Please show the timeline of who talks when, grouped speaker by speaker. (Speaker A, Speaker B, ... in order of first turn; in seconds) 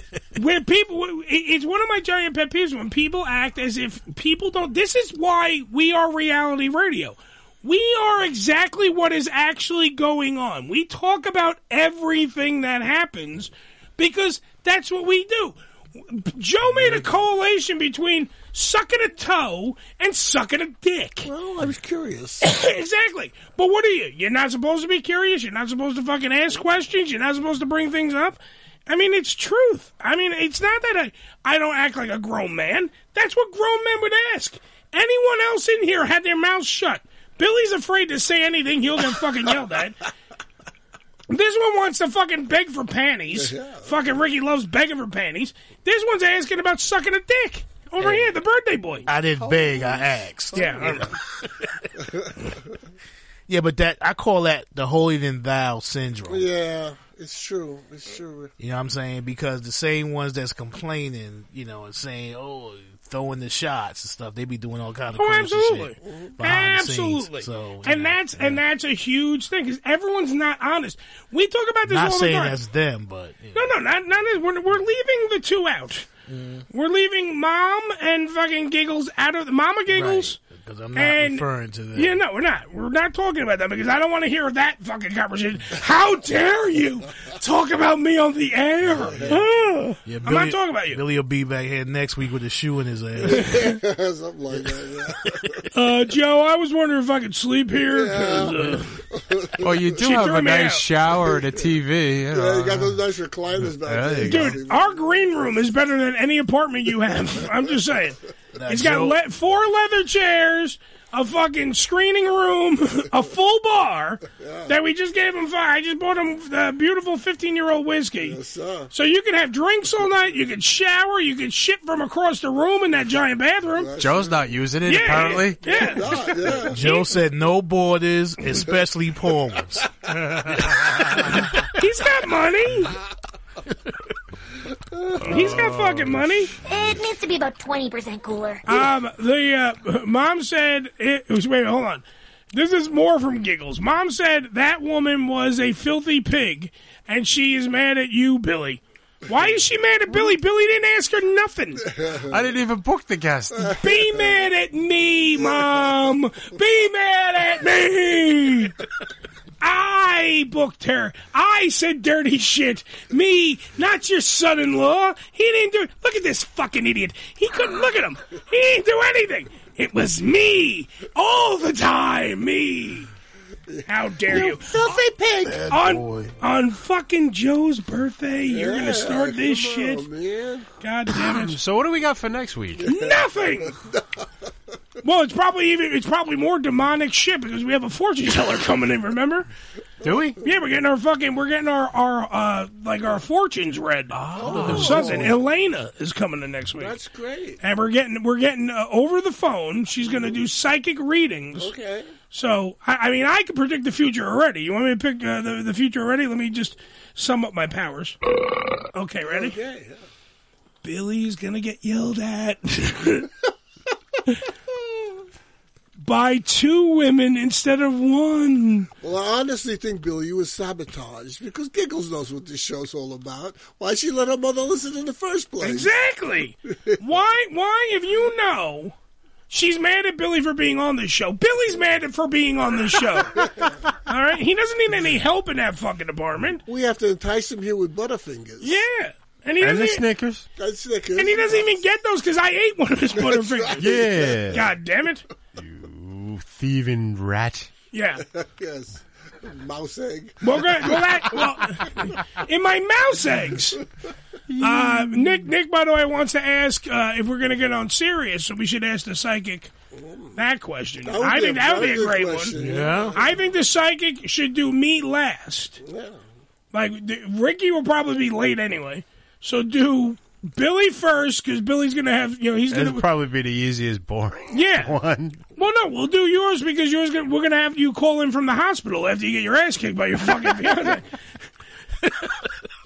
Speaker A: 0.3-15.6, 16.1-21.3, 22.4-40.0, 41.3-49.1, 50.5-51.1, 65.2-72.5, 73.5-76.1, 76.7-80.4, 80.9-91.0, 95.7-98.8, 100.0-100.9, 104.2-118.4, 118.9-123.9, 124.8-126.2, 126.8-127.1, 131.7-132.9, 135.2-136.5, 138.7-151.8, 153.7-158.7, 159.6-173.1, 173.9-174.8, 175.7-180.1, 180.8-181.6, 182.8-183.8, 185.0-189.5, 190.4-196.9, 197.6-201.7, 202.3-208.2, 208.9-209.6, 210.8-213.3, 216.0-218.9, 225.6-228.9, 229.5-233.4, 234.1-236.6, 238.6-240.1, 241.2-243.9, 244.5-245.2, 247.9-248.2, 250.4-253.8, 254.6-259.7, 260.4-265.8, 266.7-273.1, 274.5-274.9, 275.6-281.0
Speaker B: 21.2-22.4, 43.3-44.0, 49.4-51.1, 52.0-52.5, 56.3-58.5, 66.0-66.3, 88.9-89.4, 93.2-95.4, 97.9-99.9, 101.1-101.8, 102.3-105.1, 114.3-114.7, 118.2-118.9, 123.7-124.6, 125.7-126.8, 134.9-135.3, 151.8-152.4, 173.7-175.5, 178.4-180.7, 182.8-184.2, 194.4-195.4, 196.8-197.6, 200.1-200.3, 201.6-202.1, 209.2-210.0, 219.0-225.9, 226.7-227.0, 233.3-233.7, 236.7-238.8, 240.6-241.8, 243.2-244.5, 248.2-251.2, 259.9-260.4, 261.0-263.4, 265.8-266.2
Speaker C: 48.0-48.3, 49.0-51.2, 53.5-56.5, 58.6-68.6, 71.8-73.7, 76.3-76.6, 79.9-82.2, 89.0-89.4, 90.0-93.7, 108.5-109.2, 126.5-131.7, 135.4-136.3, 175.4-176.3, 194.6-195.3, 262.6-263.3
Speaker D: 99.6-103.0, 103.7-104.5, 124.0-125.9, 152.3-153.8, 181.2-182.9, 190.0-190.4, 194.1-195.0, 239.6-240.4, 243.8-244.6, 245.6-247.7, 254.5-255.5, 272.7-275.4
Speaker E: 136.7-138.6